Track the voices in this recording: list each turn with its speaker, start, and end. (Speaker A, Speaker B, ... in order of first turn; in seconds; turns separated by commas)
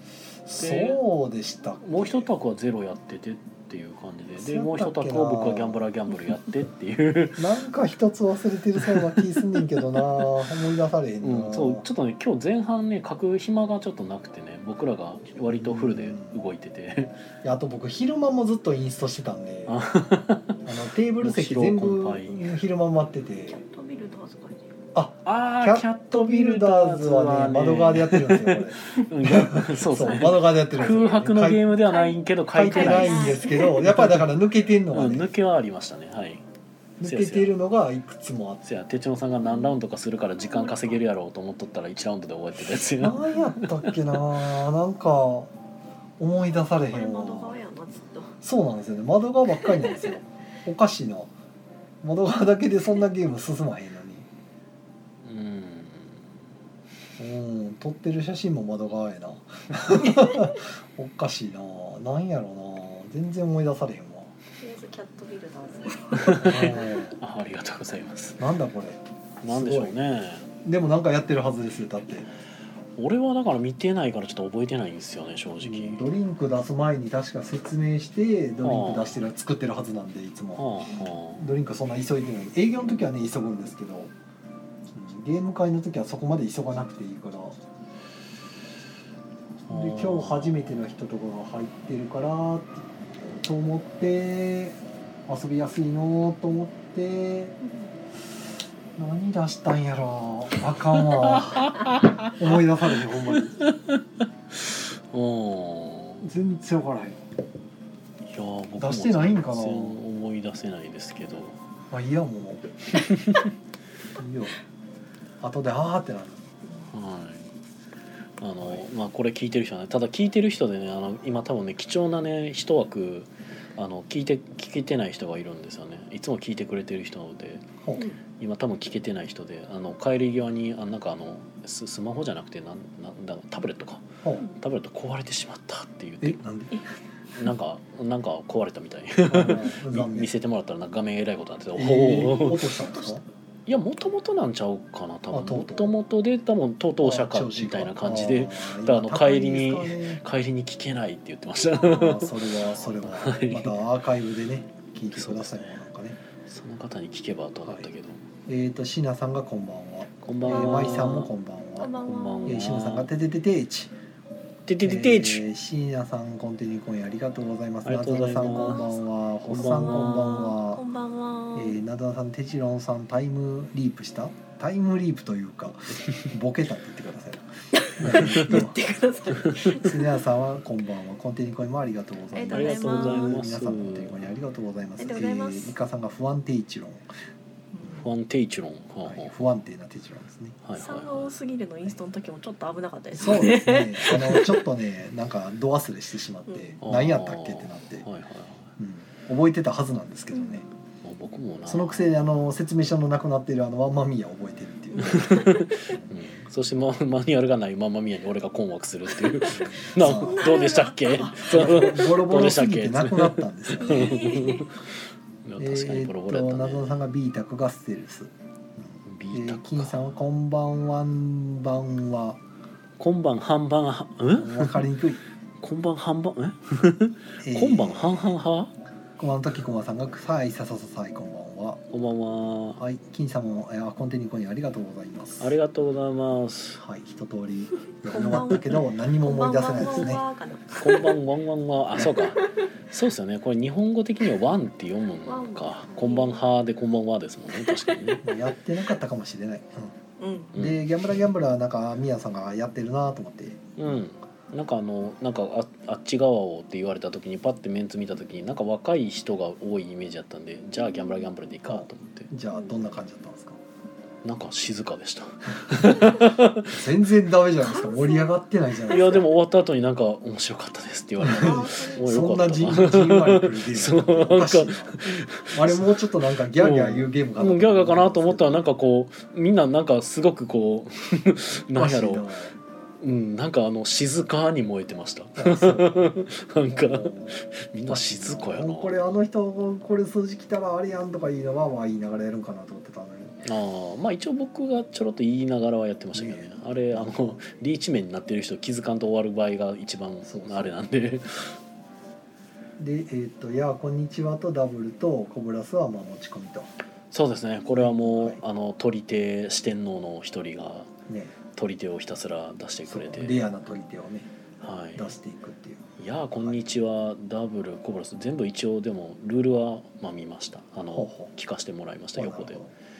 Speaker A: 0.5-2.3, Speaker B: 0.5-1.0, Speaker B: 1.8-7.4, Speaker A: 4.3-5.8, Speaker A: 7.4-11.8, Speaker B: 8.8-10.3, Speaker B: 11.2-17.1, Speaker A: 15.5-16.4, Speaker A: 17.4-19.8, Speaker B: 19.7-20.6, Speaker A: 20.6-23.6, Speaker B: 21.2-22.6, Speaker C: 23.5-24.7, Speaker A: 24.9-31.7, Speaker B: 25.2-34.3, Speaker C: 31.7-33.9, Speaker A: 32.5-35.3, Speaker B: 34.9-36.4, Speaker A: 37.0-38.6, Speaker B: 37.0-37.5, Speaker B: 38.6-44.0, Speaker C: 39.4-39.8, Speaker C: 40.4-41.0, Speaker A: 43.0-45.5, Speaker A: 46.2-47.6, Speaker C: 46.6-48.3, Speaker A: 48.4-51.3, Speaker C: 49.5-50.1, Speaker A: 52.0-54.3, Speaker B: 55.2-56.2, Speaker A: 57.2-64.3, Speaker C: 64.6-66.8, Speaker B: 66.1-68.4, Speaker A: 66.3-67.2, Speaker A: 68.4-70.0, Speaker B: 69.4-70.5, Speaker A: 70.6-72.3, Speaker B: 73.0-76.1, Speaker A: 75.6-84.1, Speaker B: 78.6-79.2, Speaker B: 80.5-81.5, Speaker A: 84.9-87.6, Speaker B: 89.7-90.7, Speaker A: 89.7-97.5, Speaker A: 99.0-103.6, Speaker B: 101.0-102.3, Speaker B: 103.3-106.3, Speaker A: 106.2-107.2, Speaker B: 108.2-111.6, Speaker A: 108.8-110.0, Speaker A: 111.9-112.7, Speaker B: 113.0-113.5, Speaker A: 114.2-114.5, Speaker A: 115.4-116.5, Speaker B: 116.9-117.5, Speaker B: 118.4-127.7, Speaker A: 127.8-128.1, Speaker B: 128.3-134.1, Speaker B: 134.6-136.4, Speaker A: 136.2-136.8, Speaker B: 137.3-142.8, Speaker A: 139.3-140.3, Speaker A: 141.7-143.2, Speaker B: 143.7-153.8, Speaker A: 145.3-145.9, Speaker A: 147.0-150.2, Speaker A: 151.8-156.2, Speaker B: 155.1-155.8, Speaker B: 156.4-158.3, Speaker A: 158.5-163.9, Speaker B: 160.2-161.3, Speaker C: 160.5-161.1, Speaker C: 161.8-162.7, Speaker B: 162.0-163.1, Speaker B: 164.7-165.5, Speaker A: 164.8-170.8, Speaker B: 167.8-168.9, Speaker C: 168.4-169.0, Speaker B: 169.4-170.5, Speaker C: 169.5-171.8, Speaker A: 171.5-178.8, Speaker C: 177.7-180.2, Speaker B: 178.2-178.5, Speaker A: 179.6-187.1, Speaker C: 182.3-183.4, Speaker B: 182.5-184.2, Speaker C: 185.0-185.7, Speaker C: 187.7-188.1, Speaker B: 187.9-189.3, Speaker A: 189.0-190.6, Speaker B: 190.6-191.3, Speaker C: 190.8-194.6, Speaker A: 193.1-198.1, Speaker C: 196.5-196.8, Speaker B: 196.8-198.7, Speaker A: 198.8-200.7, Speaker C: 200.3-200.6, Speaker B: 201.0-202.1, Speaker A: 201.7-206.1, Speaker C: 204.9-206.0, Speaker B: 205.0-214.8, Speaker A: 209.6-210.5, Speaker C: 210.0-212.1, Speaker A: 211.2-214.5, Speaker C: 213.8-214.7, Speaker B: 215.4-216.9, Speaker A: 215.6-222.4, Speaker B: 219.0-220.0, Speaker B: 223.0-224.9, Speaker A: 224.3-225.2, Speaker B: 225.6-228.7, Speaker A: 227.4-228.4, Speaker A: 229.2-231.8, Speaker B: 231.9-232.8, Speaker A: 232.8-235.5, Speaker B: 235.4-236.8, Speaker A: 236.8-240.2, Speaker C: 238.0-241.2, Speaker B: 240.8-248.3, Speaker C: 242.1-242.5, Speaker C: 245.3-246.5, Speaker C: 247.6-248.2, Speaker A: 248.2-249.9, Speaker C: 250.2-250.5, Speaker B: 250.5-250.8, Speaker A: 250.5-253.7, Speaker B: 253.8-262.3, Speaker C: 260.8-261.3, Speaker A: 261.7-263.6, Speaker C: 262.5-262.8, Speaker B: 264.2-266.8, Speaker A: 266.7-269.3, Speaker C: 267.6-268.4, Speaker B: 268.9-282.3, Speaker A: 271.2-278.7, Speaker C: 271.3-272.3, Speaker A: 281.7-282.5, Speaker B: 283.0-289.2, Speaker A: 285.4-293.4, Speaker B: 293.4-301.6, Speaker A: 296.1-297.3, Speaker A: 300.2-300.7, Speaker A: 302.8-306.7, Speaker B: 307.1-310.9, Speaker A: 307.6-308.4, Speaker A: 311.1-311.3, Speaker B: 311.5-313.5, Speaker A: 312.9-314.3, Speaker B: 314.6-315.1, Speaker A: 314.9-316.6, Speaker B: 316.0-322.6, Speaker A: 320.9-321.3, Speaker A: 322.1-322.7